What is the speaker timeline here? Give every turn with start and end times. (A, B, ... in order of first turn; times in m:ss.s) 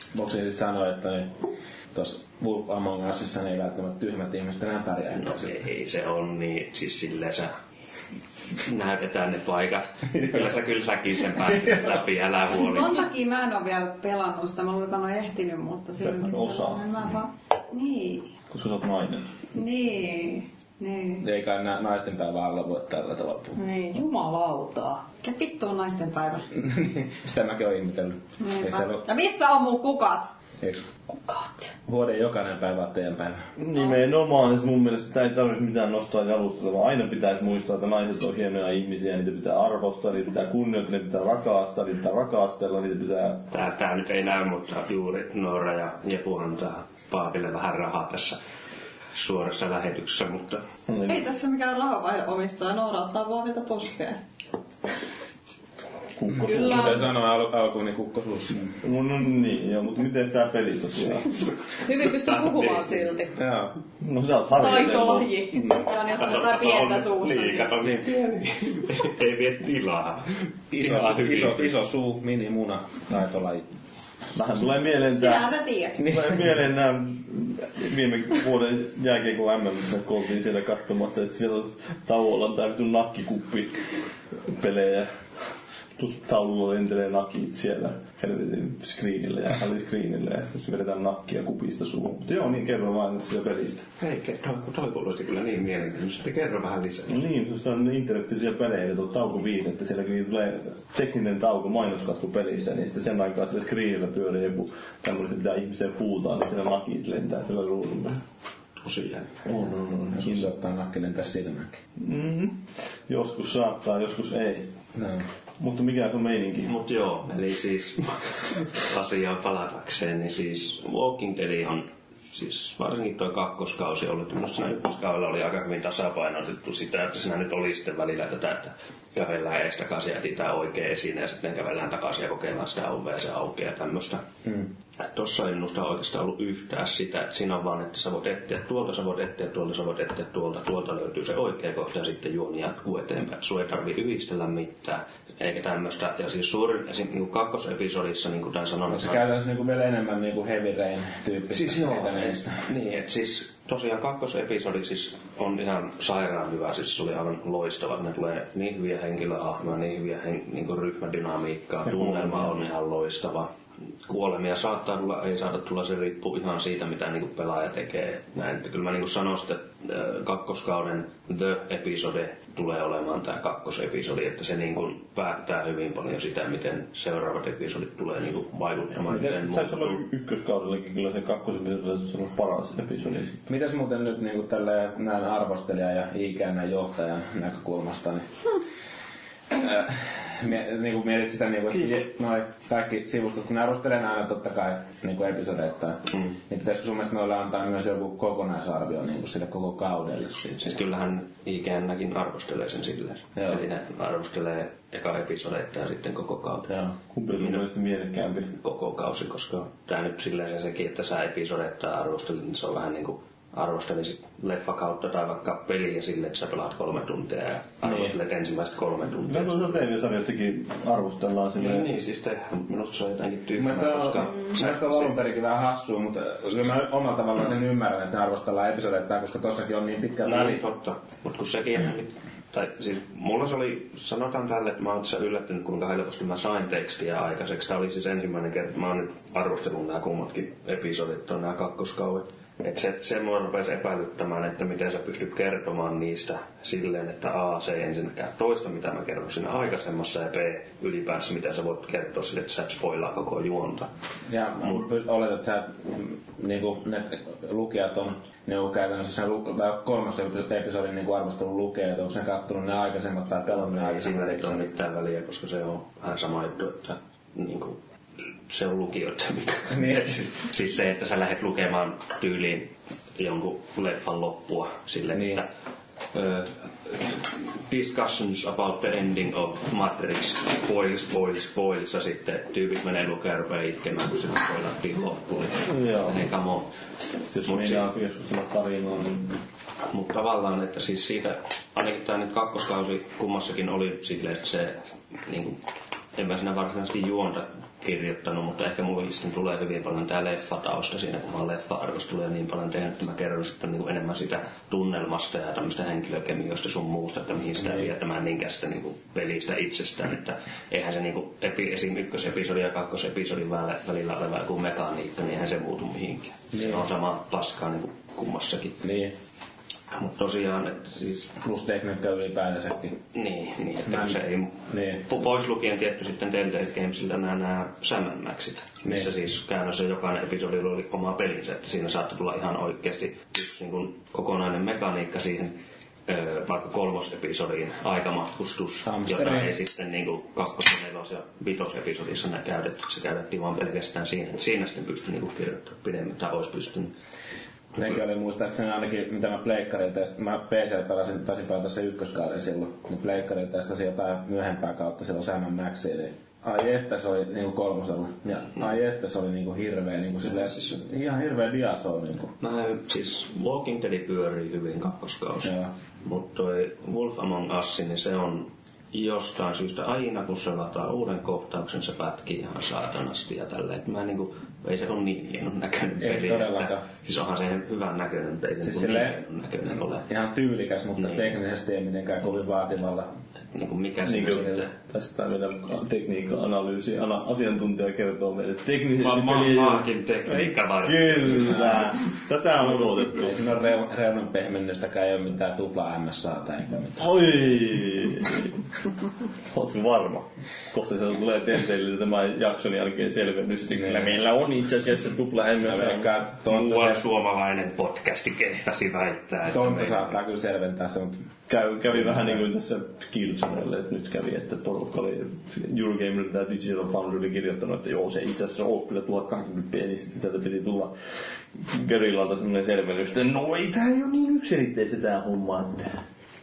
0:00.1-0:01.4 A
0:01.9-0:05.5 A
0:05.1-0:07.5 B
0:08.6-0:13.1 B
0:10.2-0:10.5 A
0:11.4-0:11.9 A
0:12.6-0:18.3 C
0:16.0-0:16.8 D
0:18.5-0:19.4 D
0:19.5-0:21.2 C
0:21.2-0:23.6 A
0:23.6-0:25.0 E
0:25.2-0:26.5 C
0:26.6-0:29.1 A
0:28.4-0:30.3 C
0:30.6-0:30.9 A
0:31.9-0:33.4 A
0:33.6-0:43.5 D
0:43.5-0:48.4 B
0:49.1-0:50.6 B
0:50.9-0:51.2 D
0:51.0-0:54.2 C
0:56.2-0:56.9 D
0:56.4-0:58.7 A
0:56.5-0:57.0 C
0:58.8-1:01.3 D
1:01.8-1:03.4 E
1:01.9-1:03.1 B
1:03.4-1:03.8 A
1:04.0-1:05.4 D
1:04.5-1:05.8 E
1:05.7-1:07.8 C
1:06.1-1:11.8 B
1:10.7-1:13.7 A
1:14.3-1:23.9 D
1:15.1-1:16.1 C
1:16.0-1:16.4 A
1:24.4-1:25.1 D
1:26.0-1:33.9 D
1:34.0-1:37.2 B
1:37.1-1:48.2 D
1:48.8-1:49.4 B
1:49.4-1:50.4 D
1:50.1-1:51.8 A
1:52.0-1:54.7 D
1:54.9-1:55.2 A
1:55.6-1:56.7 D
1:56.6-2:14.2 B
2:15.0-2:29.2 B
2:28.9-2:32.6 A
2:31.5-2:43.5 B
2:41.8-2:42.5 D
2:44.0-3:00.0 B
2:59.1-3:03.3 D
3:03.4-3:08.3 A
3:09.5-3:20.8 A
3:20.6-3:26.8 B
3:26.7-3:27.0 A
3:27.1-3:28.5 D
3:27.3-3:27.7 B
3:28.5-3:39.9 B
3:37.8-3:38.1 A
3:39.3-3:41.9 D
3:41.6-3:45.2 B
3:43.6-3:50.6 A
3:50.2-4:13.9 B
4:14.3-4:24.7 A
4:23.5-4:27.8 B
4:28.5-4:35.5 B
4:29.7-4:30.1 A
4:35.1-4:35.4 A
4:36.1-4:46.7 B
4:45.7-4:46.2 D
4:47.3-4:49.4 D
4:47.4-4:47.9 B
4:49.9-4:55.6 B
4:56.2-5:18.8 B
5:07.6-5:07.9 A
5:16.5-5:16.8 A
5:18.8-5:19.1 A
5:19.9-5:21.3 B
5:21.4-5:23.0 A
5:23.1-5:46.9 B
5:23.9-5:25.1 A
5:38.8-5:39.5 A
5:47.7-6:02.4 A
6:00.2-6:00.8 B
6:02.4-6:20.1 B
6:05.4-6:05.7 A
6:16.0-6:16.8 A
6:18.6-6:19.2 A
6:20.1-6:23.1 A
6:21.0-6:21.3 B
6:23.5-6:24.7 B
6:24.0-6:33.4 D
6:29.0-6:31.9 B
6:33.1-6:37.4 A
6:37.0-6:38.5 D
6:39.5-6:46.2 D
6:43.7-6:44.2 A
6:45.6-6:47.0 A
6:46.4-6:50.2 B
6:49.5-6:51.3 A
6:51.5-7:00.9 D
6:51.9-6:52.4 A
7:01.5-7:06.0 D